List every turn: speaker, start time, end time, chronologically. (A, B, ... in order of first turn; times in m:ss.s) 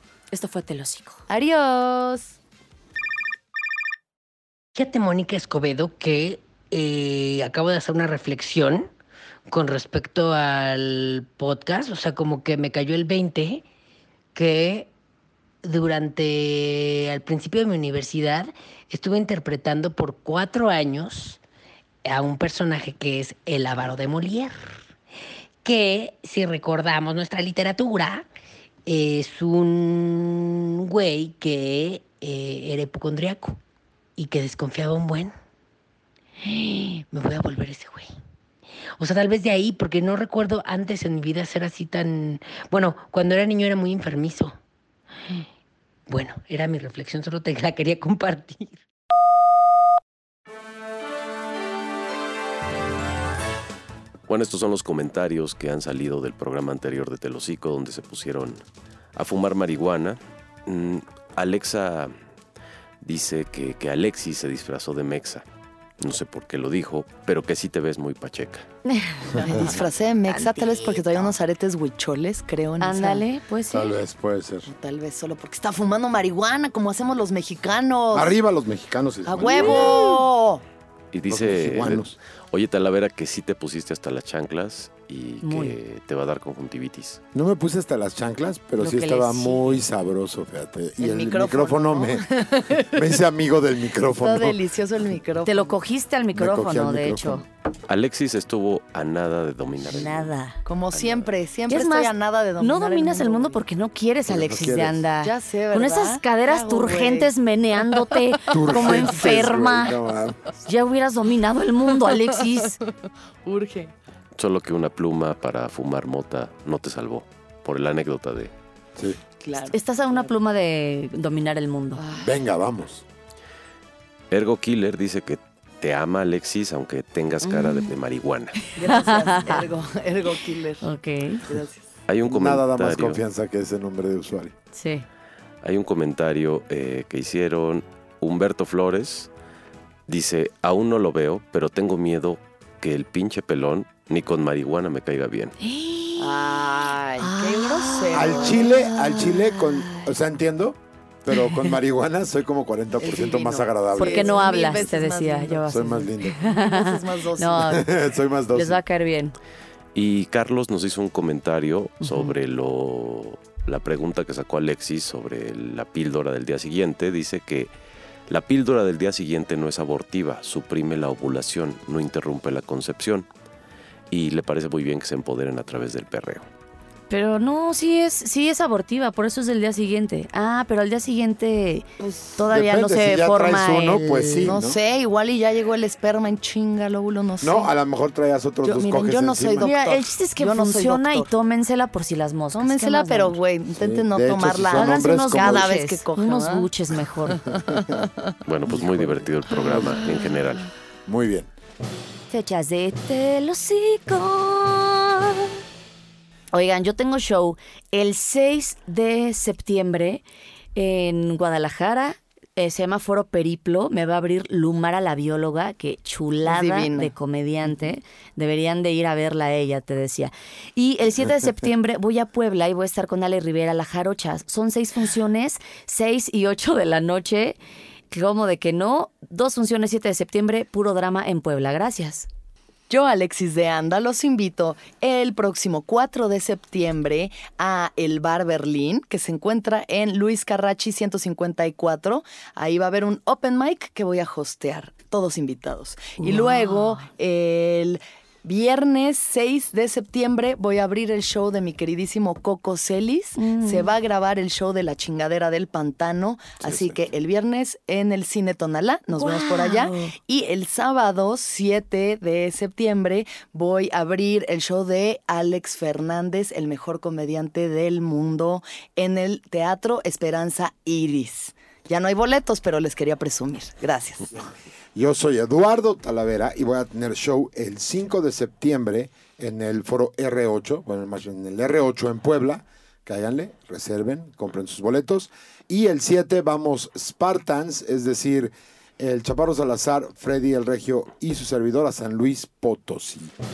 0:00.3-0:01.2 A
0:01.3-0:02.4 B
0:04.8-0:08.9 C
0:09.5-0:13.6 C
0:14.4-0:14.9 C
0:15.6-0:21.4 C
0:22.1-0:24.6 C
0:25.6-0:28.3 C
0:28.9-0:33.6 C
0:34.2-0:35.3 C
0:36.4-0:38.1 C
0:39.0-0:44.5 C
0:46.1-0:48.8 C
0:54.3-0:58.6 D
0:59.2-1:02.1 D
1:03.0-1:05.4 D
1:06.0-1:08.7 D
1:08.9-1:11.4 A
1:09.4-1:13.2 B
1:12.8-1:14.0 A
1:13.7-1:14.7 E
1:14.7-1:18.3 B
1:18.1-1:20.1 E
1:19.3-1:20.6 B
1:19.4-1:20.2 A
1:21.1-1:27.2 D
1:21.3-1:22.2 E
1:25.4-1:25.8 A
1:27.3-1:34.6 E
1:28.8-1:29.8 A
1:31.0-1:33.0 B
1:34.2-1:35.8 B
1:35.4-1:37.4 A
1:36.4-1:37.4 E
1:37.9-1:40.3 D
1:39.8-1:40.6 A
1:40.6-1:43.6 B
1:40.9-1:41.3 D
1:41.7-1:50.0 A
1:44.3-1:45.0 E
1:45.2-1:47.3 B
1:47.9-1:49.5 B
1:48.5-1:50.4 E
1:50.6-1:52.8 A
1:51.9-1:52.6 B
1:53.4-1:53.9 B
1:54.4-1:58.5 D
1:59.4-2:00.3 B
1:59.7-2:02.0 A
2:02.0-2:02.4 B
2:02.2-2:03.0 E
2:04.3-2:08.7 D
2:07.4-2:07.9 A
2:08.8-2:10.9 B
2:08.8-2:09.7 A
2:10.8-2:11.5 A
2:11.5-2:11.9 B
2:12.1-2:13.2 D
2:12.2-2:14.5 E
2:14.7-2:15.1 A
2:15.6-2:19.3 D
2:20.1-2:25.5 D
2:25.6-2:30.1 A
2:26.2-2:28.8 B
2:28.1-2:34.5 E
2:31.4-2:31.7 A
2:33.0-2:35.7 B
2:34.0-2:37.9 A
2:35.7-2:36.4 E
2:36.4-2:37.8 B
2:37.6-2:38.8 E
2:38.5-2:39.4 A
2:40.0-2:47.7 D
2:42.0-2:42.3 A
2:48.3-2:53.3 D
2:54.1-2:56.4 D
2:57.1-3:04.6 A
3:02.5-3:04.8 E
3:04.4-3:07.7 B
3:07.4-3:09.7 E
3:08.6-3:11.3 B
3:09.6-3:13.4 A
3:12.5-3:16.7 B
3:13.8-3:15.7 E
3:14.7-3:17.5 A
3:17.3-3:18.1 B
3:17.8-3:18.0 E
3:18.4-3:20.7 D
3:18.7-3:20.1 E
3:21.1-3:21.5 E
3:22.3-3:25.5 A
3:26.5-3:30.2 A
3:30.8-3:47.6 A
3:36.5-3:37.1 B
3:48.1-3:52.3 A
3:52.9-4:34.4 B
4:06.2-4:07.1 A
4:13.4-4:13.9 A
4:16.6-4:17.0 E
4:19.1-4:20.1 A
4:35.0-4:53.3 E